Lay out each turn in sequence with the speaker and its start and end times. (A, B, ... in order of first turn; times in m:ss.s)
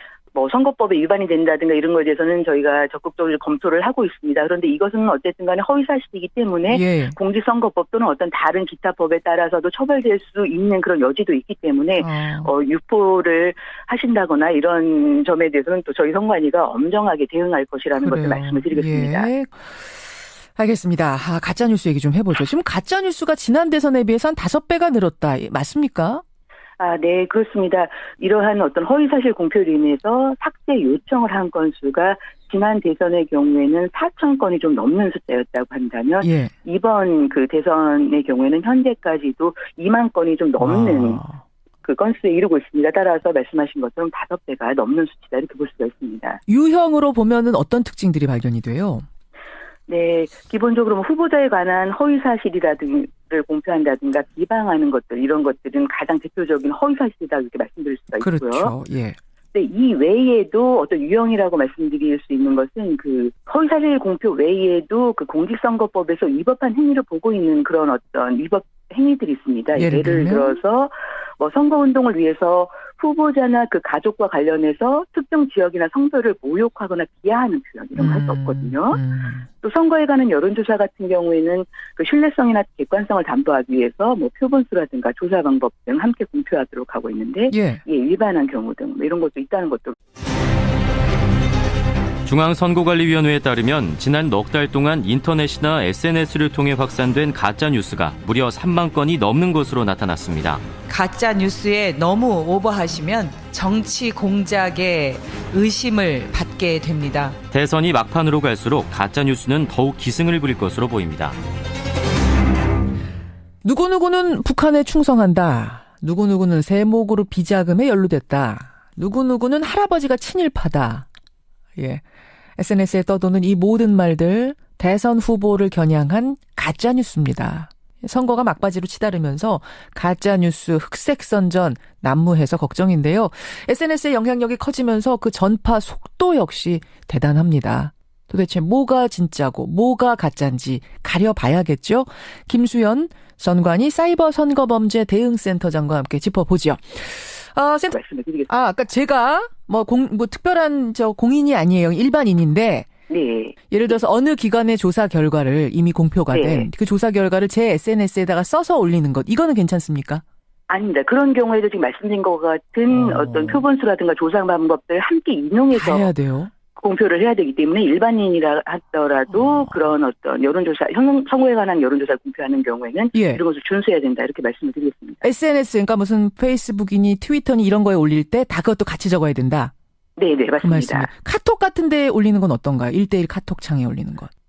0:00.3-0:19.3 A
0:06.7-0:07.2 B
0:12.0-0:12.5 B
0:18.0-0:26.2 B
0:26.8-0:41.2 A
0:36.2-0:36.5 B
0:40.6-0:41.4 B
0:41.8-0:46.4 A
0:46.5-0:49.0 B
0:49.9-0:58.7 A
0:58.2-0:59.2 B
0:59.5-1:19.0 A
1:09.8-1:10.6 B
1:18.0-1:19.4 B
1:19.6-1:29.9 A
1:27.5-1:27.8 B
1:32.2-1:40.7 C
1:40.9-1:47.4 D
1:47.5-1:51.4 C
1:53.6-2:01.1 B
2:01.8-2:02.0 B
2:02.6-2:28.0 B
2:27.9-2:28.5 A
2:28.5-2:32.9 B
2:33.1-2:33.6 A
2:33.7-2:40.2 B
2:36.3-2:36.7 A
2:40.7-2:46.1 A
2:42.9-2:43.6 B
2:45.7-2:46.5 B
2:46.8-2:55.2 A
2:49.4-2:49.7 B
2:53.1-2:53.4 B
2:55.2-2:59.7 B
3:00.2-3:01.1 A
3:00.6-3:04.3 B